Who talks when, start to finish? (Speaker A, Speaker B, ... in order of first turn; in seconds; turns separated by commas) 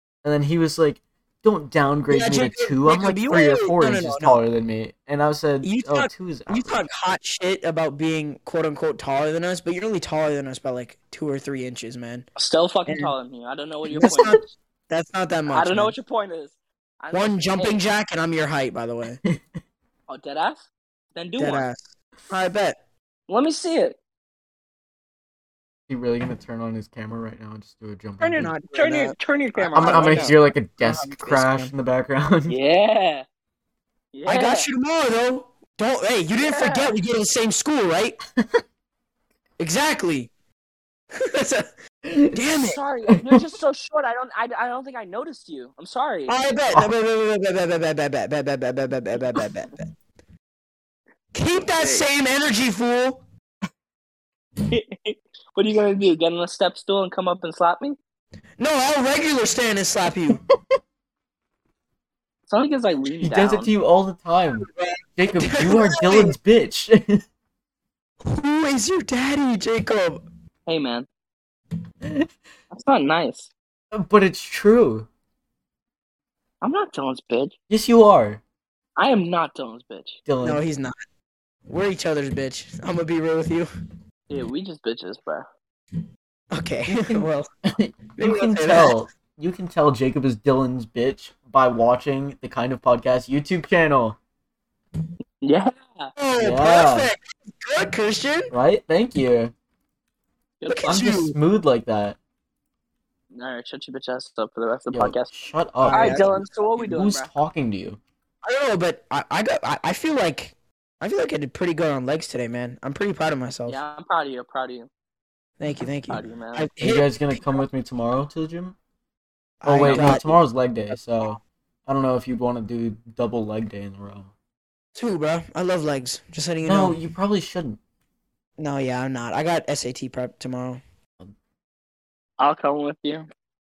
Speaker A: 0.2-6.8, Speaker B: 2.1-4.4, Speaker B: 5.6-12.3, Speaker C: 12.4-14.5, Speaker B: 12.9-13.1, Speaker B: 13.9-15.9, Speaker A: 14.0-14.3, Speaker C: 15.5-17.8, Speaker B: 17.1-19.2, Speaker C: 20.1-21.6, Speaker B: 21.4-22.8, Speaker C: 23.3-24.0, Speaker A: 25.9-28.5, Speaker C: 28.2-30.3, Speaker B: 28.4-31.7, Speaker A: 29.7-32.5, Speaker C: 32.5-33.2, Speaker C: 34.1-34.7, Speaker B: 34.2-38.2, Speaker C: 36.4-36.9, Speaker B: 39.6-40.3, Speaker B: 41.1-41.7, Speaker A: 42.0-42.3, Speaker B: 42.3-42.8, Speaker C: 42.5-46.4, Speaker A: 43.1-43.5, Speaker B: 46.3-49.9, Speaker B: 51.3-53.2, Speaker C: 51.7-52.0, Speaker C: 54.6-58.0, Speaker B: 58.6-60.4, Speaker C: 62.5-63.7, Speaker A: 63.2-67.2, Speaker B: 64.6-66.3, Speaker B: 68.2-70.2, Speaker C: 70.7-71.1, Speaker A: 72.0-72.3, Speaker C: 72.7-73.5, Speaker A: 73.9-75.1, Speaker C: 76.6-77.5, Speaker A: 77.7-78.4, Speaker C: 79.0-80.2, Speaker A: 80.3-80.6, Speaker B: 80.4-81.0, Speaker B: 81.7-83.7, Speaker C: 84.3-85.5, Speaker B: 86.5-87.5, Speaker A: 87.7-94.2, Speaker B: 88.2-89.0, Speaker C: 95.4-96.1, Speaker B: 96.2-98.5, Speaker A: 96.4-97.1, Speaker A: 98.5-99.5, Speaker C: 100.6-101.0, Speaker B: 100.7-101.3, Speaker A: 100.9-102.2, Speaker C: 103.3-105.3, Speaker A: 104.9-108.0, Speaker B: 105.8-106.3, Speaker C: 105.9-107.3, Speaker B: 108.4-113.8, Speaker C: 113.7-114.9, Speaker B: 115.6-117.6, Speaker C: 116.1-116.7, Speaker A: 116.8-118.7, Speaker B: 119.6-120.4, Speaker A: 119.7-124.3, Speaker C: 119.7-120.2, Speaker B: 120.9-121.3, Speaker B: 124.9-127.0, Speaker A: 126.6-127.8, Speaker B: 128.6-130.8, Speaker C: 132.4-133.3